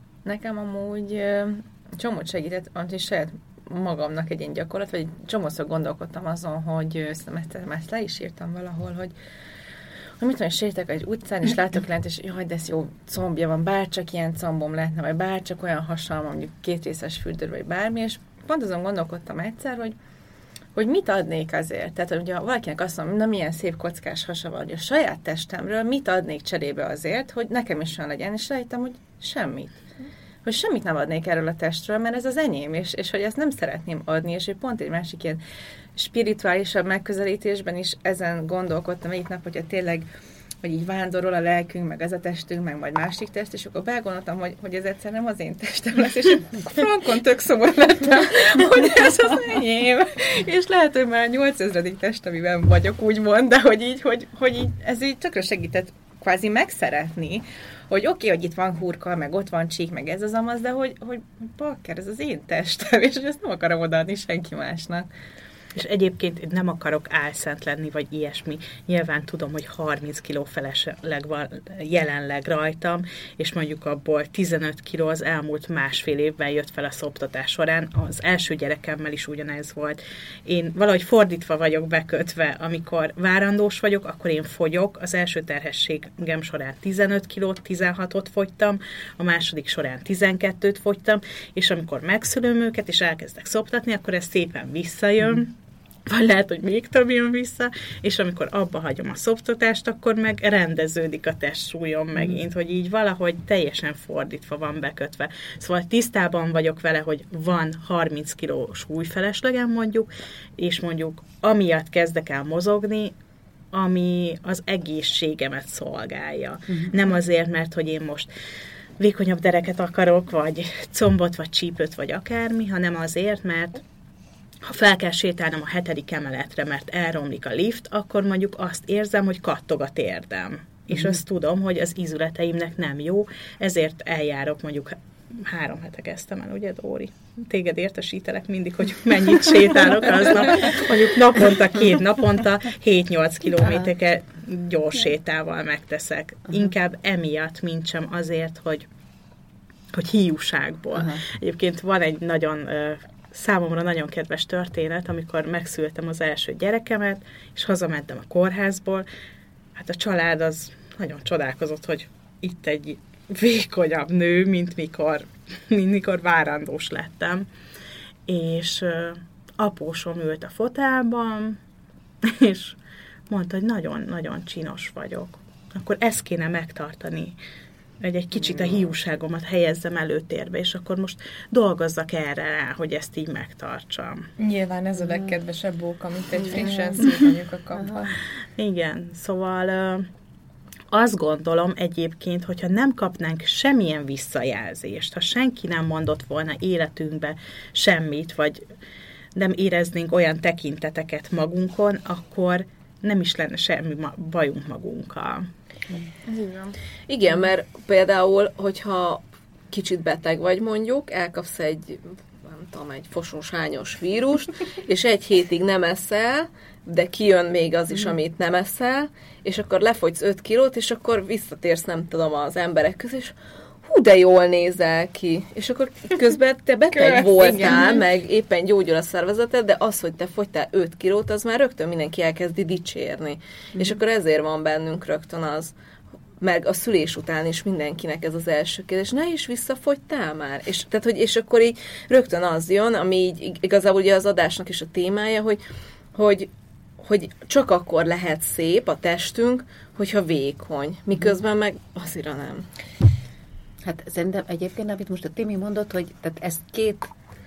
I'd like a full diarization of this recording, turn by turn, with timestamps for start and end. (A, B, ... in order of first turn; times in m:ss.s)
0:00.2-0:09.1 A
0:10.2-0:20.0 A
0:20.8-0:29.8 A
0:30.4-0:35.4 A
0:36.0-0:40.1 A
0:40.6-1:05.1 A
0:46.8-0:47.1 B
1:05.8-1:35.5 C
1:36.1-1:53.2 C
1:53.7-1:58.3 C
1:59.0-2:03.8 C
2:04.6-2:28.9 C
2:23.6-2:23.9 D
2:29.9-2:39.1 C
2:30.9-2:31.2 D
2:39.7-2:47.5 C
2:48.3-2:51.6 C
2:52.2-2:52.8 C
2:53.3-2:57.4 C
2:58.0-3:04.3 C
3:04.4-3:08.1 B
3:06.6-3:07.0 D
3:08.6-3:10.1 C
3:10.9-3:18.7 C
3:19.4-3:25.5 C
3:26.3-3:26.8 A
3:27.1-3:55.7 E
3:46.9-3:48.0 B
3:56.4-4:05.6 E
4:06.2-4:12.7 E
4:13.8-4:17.1 D